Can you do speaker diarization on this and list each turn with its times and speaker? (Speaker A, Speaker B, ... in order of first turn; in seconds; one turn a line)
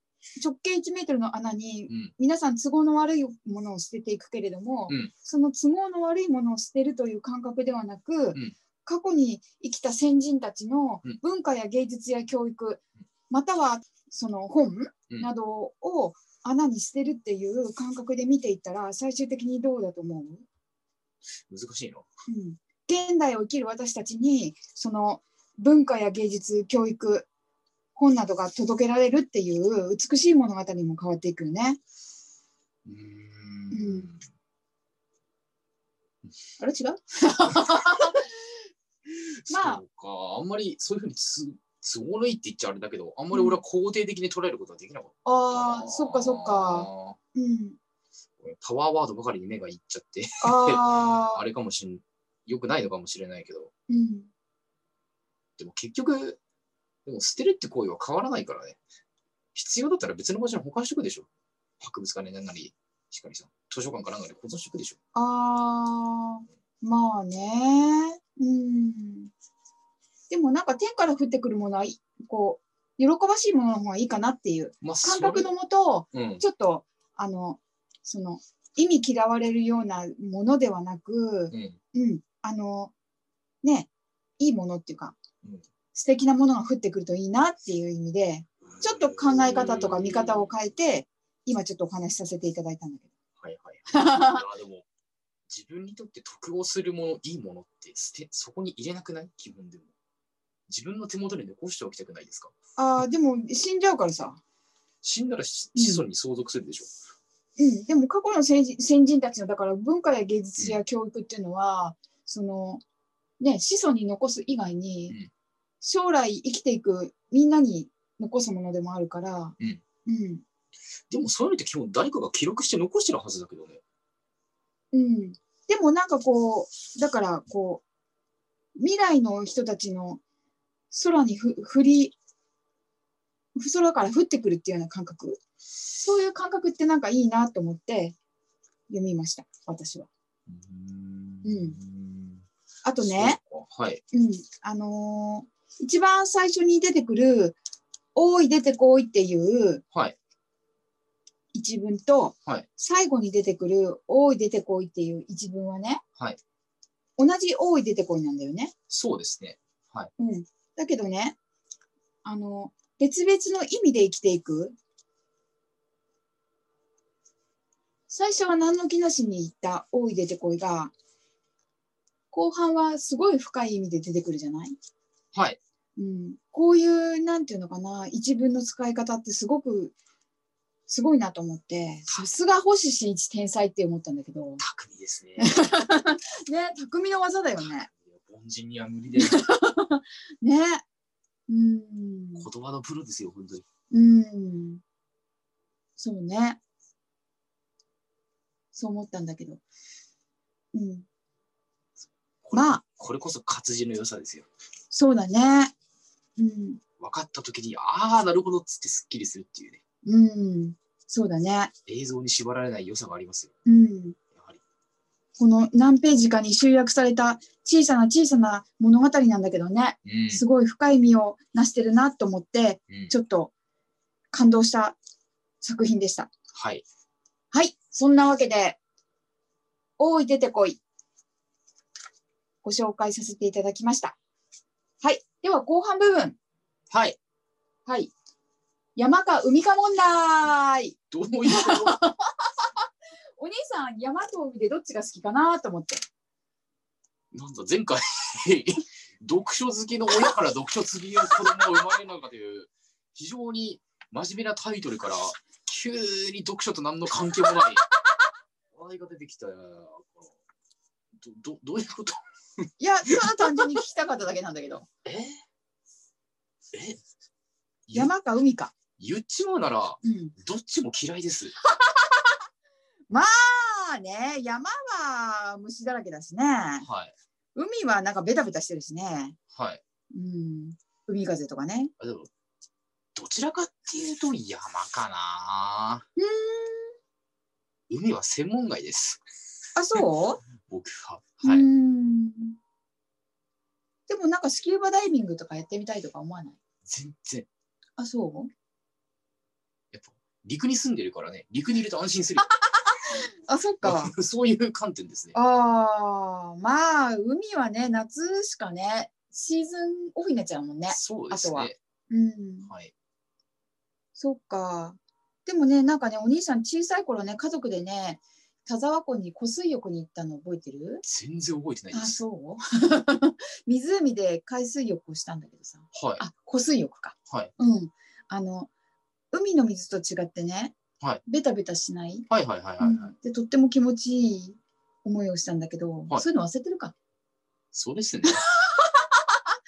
Speaker A: 0.4-20.4
Speaker B: 21.5-22.1
Speaker A: 22.3-27.3
Speaker A: 28.0-31.8
Speaker B: 32.9-34.2
Speaker A: 33.7-34.1
Speaker A: 36.6-38.3
Speaker A: 39.5-39.8
Speaker B: 39.5-47.2
Speaker A: 43.3-43.6
Speaker A: 45.2-47.8
Speaker B: 48.4-53.7
Speaker A: 50.4-51.4
Speaker A: 53.9-54.3
Speaker B: 55.6-56.4
Speaker B: 57.1-58.8
Speaker B: 59.5-61.3
Speaker B: 61.8-65.0
Speaker A: 65.2-69.3
Speaker A: 70.3-82.9
Speaker B: 74.8-75.5
Speaker B: 76.1-76.4
Speaker B: 81.5-81.8
Speaker A: 83.6-85.2
Speaker A: 85.9-93.1
Speaker B: 88.7-90.5
Speaker B: 93.4-94.9
Speaker A: 93.9-94.4
Speaker B: 95.5-99.9
Speaker B: 100.7-102.5
Speaker A: 102.8-104.4
Speaker B: 105.0-106.9
Speaker A: 105.8-106.0
Speaker A: 107.6-112.8
Speaker A: 113.4-115.2
Speaker A: 115.8-120.4
Speaker B: 121.1-123.8
Speaker A: 124.9-127.8
Speaker A: 128.8-130.2
Speaker A: 130.9-132.2
Speaker A: 133.6-135.4
Speaker A: 136.0-138.2
Speaker A: 138.9-140.1
Speaker B: 140.5-142.4
Speaker A: 141.4-141.8
Speaker A: 142.8-143.4
Speaker B: 143.0-144.0
Speaker A: 144.1-147.6
Speaker A: 148.2-149.8
Speaker A: 151.5-156.0
Speaker A: 157.2-158.7
Speaker B: 158.9-160.1
Speaker A: 160.2-161.4
Speaker A: 162.2-164.8
Speaker A: 168.1-170.9
Speaker A: 172.3-174.8
Speaker B: 175.3-175.6
Speaker A: 176.0-179.9
Speaker A: 180.9-184.6
Speaker B: 184.6-185.6
Speaker A: 185.4-187.9
Speaker B: 188.1-189.4
Speaker A: 189.1-190.8
Speaker A: 191.5-192.5
Speaker B: 192.4-193.6
Speaker A: 193.9-194.8
Speaker A: 196.0-196.6
Speaker A: 198.7-199.6
Speaker A: 200.7-201.1
Speaker B: 202.4-204.5
Speaker A: 202.5-202.8
Speaker A: 204.9-205.7
Speaker A: 206.4-206.8
Speaker B: 207.0-209.8
Speaker A: 210.1-211.7
Speaker B: 211.9-213.5
Speaker A: 213.7-214.2
Speaker A: 215.4-223.5
Speaker B: 220.1-220.4
Speaker A: 224.3-225.0
Speaker A: 225.6-226.3
Speaker B: 226.5-226.8
Speaker A: 227.5-228.8
Speaker A: 230.0-230.8
Speaker A: 232.6-234.2
Speaker A: 235.0-236.4
Speaker B: 236.9-237.2
Speaker A: 237.9-238.1
Speaker A: 239.0-242.5
Speaker B: 241.1-242.0
Speaker A: 243.4-246.0
Speaker B: 247.3-257.8
Speaker B: 258.7-260.3
Speaker B: 261.2-262.2
Speaker A: 262.8-264.9
Speaker B: 265.1-265.4
Speaker B: 266.7-267.0
Speaker B: 267.9-268.1
Speaker A: 267.9-268.7
Speaker B: 269.0-271.6
Speaker A: 270.0-270.3
Speaker A: 271.8-272.2
Speaker A: 273.1-276.9
Speaker B: 276.8-277.1
Speaker A: 277.6-279.4
Speaker B: 279.5-279.8
Speaker A: 280.1-281.9
Speaker B: 282.0-282.3
Speaker B: 283.1-286.1
Speaker A: 286.2-286.9
Speaker B: 287.9-289.2
Speaker A: 289.8-290.4
Speaker B: 290.6-291.7
Speaker A: 291.4-292.6
Speaker A: 294.1-296.6
Speaker B: 296.9-297.5
Speaker A: 298.0-298.5
Speaker B: 299.9-302.5
Speaker A: 302.6-304.1
Speaker B: 303.8-305.4
Speaker A: 305.3-312.7
Speaker B: 310.9-311.8
Speaker B: 312.7-312.9
Speaker A: 314.1-321.0
Speaker B: 321.0-322.2
Speaker A: 321.9-328.7
Speaker B: 325.9-326.2
Speaker A: 329.3-330.7
Speaker A: 331.2-332.3
Speaker B: 332.3-333.1
Speaker A: 332.8-336.9
Speaker B: 337.7-338.4
Speaker A: 338.2-339.2